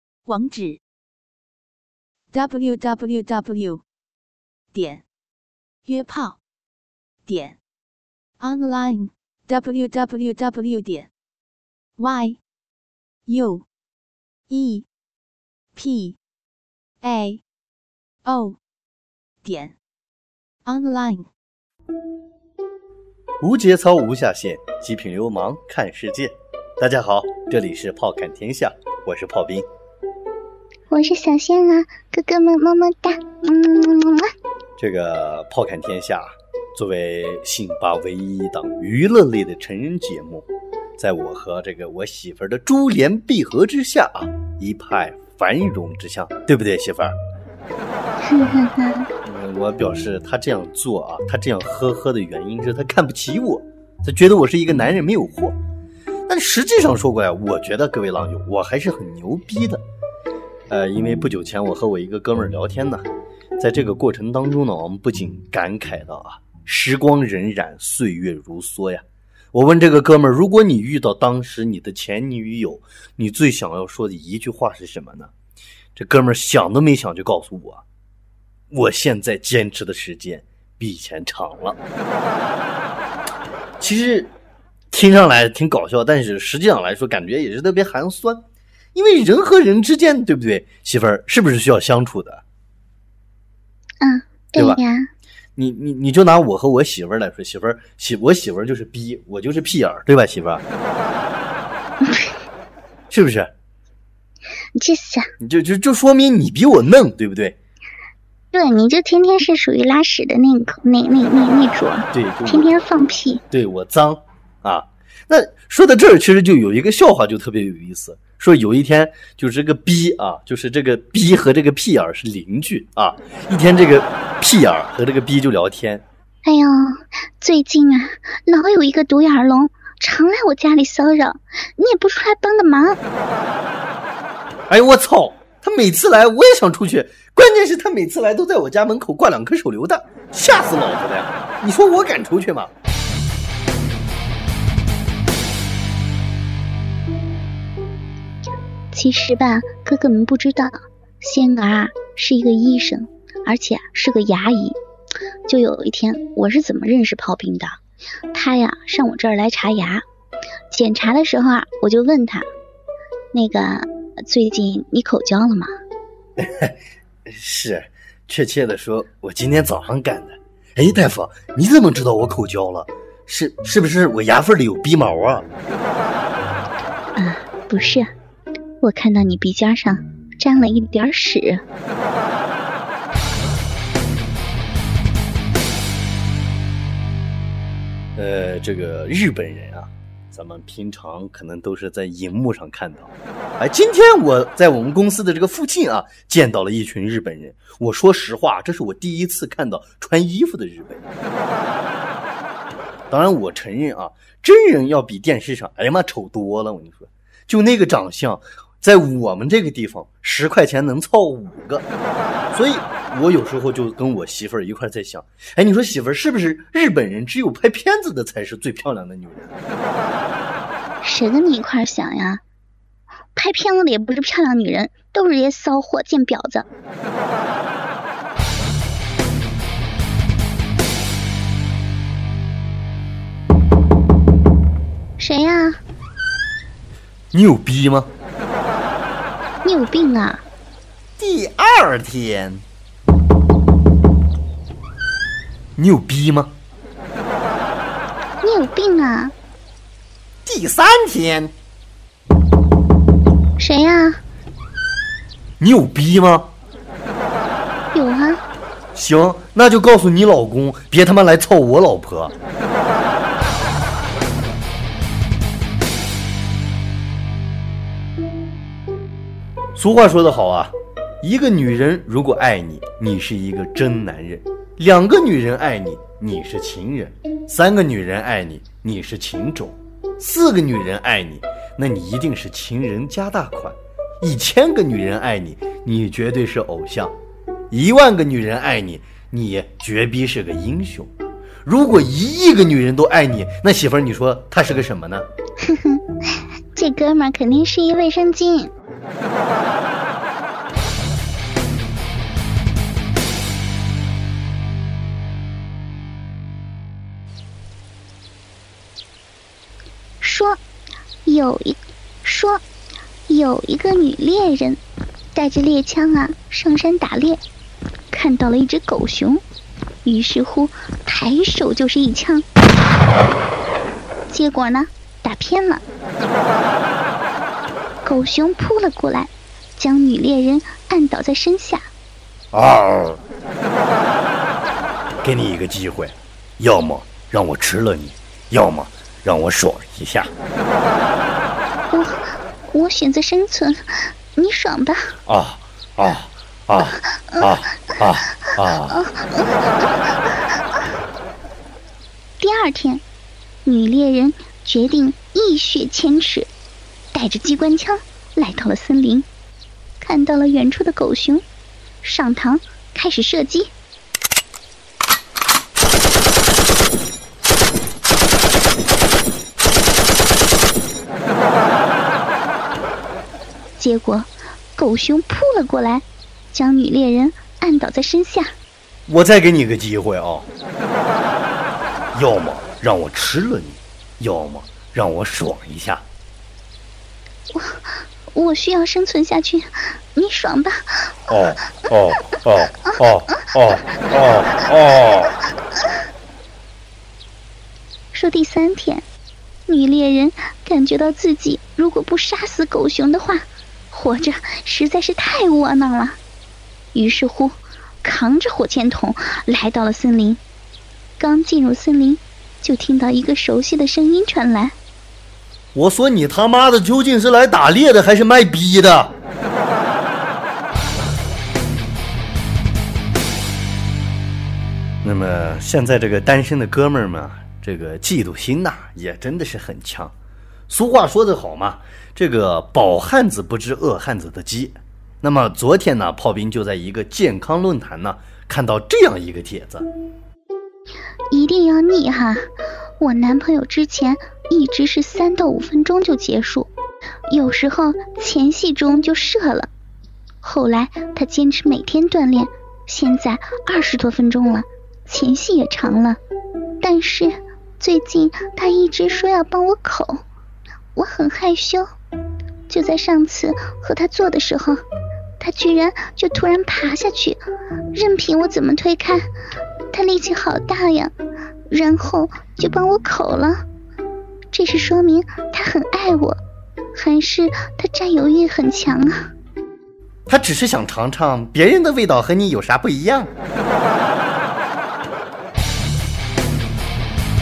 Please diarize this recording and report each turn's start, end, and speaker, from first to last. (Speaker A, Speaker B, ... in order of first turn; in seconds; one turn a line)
Speaker A: 0.3-0.8
Speaker A: 2.3-3.8
Speaker A: 4.7-5.0
Speaker A: 5.9-6.4
Speaker A: 7.3-7.6
Speaker A: 8.4-11.1
Speaker A: 12.0-12.4
Speaker A: 13.3-13.7
Speaker A: 14.5-14.9
Speaker A: 15.8-16.2
Speaker A: 17.0-17.4
Speaker A: 18.2-18.6
Speaker A: 19.4-19.8
Speaker A: 20.7-21.3
Speaker B: 23.4-29.7
Speaker C: 30.9-34.2
Speaker B: 34.8-47.1
Speaker C: 48.2-49.1
Speaker B: 49.2-55.6
Speaker B: 56.3-59.8
Speaker B: 60.7-75.3
Speaker B: 76.0-77.8
Speaker B: 78.7-81.8
Speaker B: 83.8-84.3
Speaker B: 84.9-88.4
Speaker B: 89.0-92.4
Speaker C: 94.0-95.1
Speaker B: 95.6-100.6
Speaker C: 102.1-102.3
Speaker B: 103.1-103.5
Speaker C: 104.8-105.3
Speaker B: 105.4-107.6
Speaker C: 108.5-113.4
Speaker B: 112.1-112.8
Speaker B: 113.5-126.0
Speaker C: 126.4-133.0
Speaker B: 134.7-142.7
Speaker C: 148.9-154.8
Speaker C: 155.5-157.7
Speaker C: 158.3-160.1
Speaker C: 160.7-162.5
Speaker C: 163.3-165.7
Speaker B: 166.4-166.8
Speaker B: 167.3-175.5
Speaker C: 177.2-178.1
Speaker C: 178.8-181.6
Speaker B: 188.2-201.0
Speaker B: 203.1-211.9
Speaker B: 212.5-219.5
Speaker C: 221.0-222.4
Speaker C: 223.3-226.7
Speaker C: 235.2-235.8
Speaker B: 237.3-238.1
Speaker C: 239.6-240.4
Speaker B: 241.2-242.6
Speaker B: 245.8-246.6
Speaker C: 248.4-249.3
Speaker B: 250.4-251.5
Speaker C: 253.6-254.2
Speaker B: 255.6-256.5
Speaker C: 257.9-258.4
Speaker B: 258.9-262.3
Speaker B: 269.8-287.1
Speaker B: 287.7-291.1
Speaker B: 291.6-295.3
Speaker C: 295.6-296.0
Speaker C: 296.8-298.7
Speaker C: 310.2-310.6
Speaker C: 311.3-312.6
Speaker C: 313.3-314.8
Speaker C: 315.4-317.4
Speaker C: 318.1-319.4
Speaker C: 320.1-322.5
Speaker C: 324.3-325.8
Speaker C: 328.0-331.9
Speaker B: 332.5-333.2
Speaker B: 335.2-340.3
Speaker C: 341.9-345.1
Speaker B: 345.3-349.0
Speaker C: 349.0-349.9
Speaker C: 352.4-353.0
Speaker C: 353.6-356.5
Speaker C: 357.1-359.3
Speaker C: 360.0-361.4
Speaker C: 362.0-363.7
Speaker C: 373.8-378.5
Speaker B: 379.1-380.5
Speaker B: 382.1-386.1
Speaker C: 387.5-391.2
Speaker B: 391.3-395.4
Speaker C: 398.1-399.1
Speaker C: 399.7-406.2
Speaker C: 406.9-410.4
Speaker C: 411.2-414.8
Speaker B: 415.8-419.1
Speaker B: 425.0-430.1
Speaker B: 430.7-439.9
Speaker C: 441.3-442.4
Speaker C: 443.0-446.7
Speaker C: 447.3-449.7
Speaker C: 450.4-456.2
Speaker C: 456.8-460.2
Speaker C: 460.9-461.9
Speaker C: 462.7-464.8
Speaker C: 465.4-467.4
Speaker C: 467.9-469.3
Speaker C: 469.9-471.1
Speaker C: 471.7-473.6
Speaker C: 474.5-476.4
Speaker C: 476.9-479.3
Speaker B: 480.3-483.3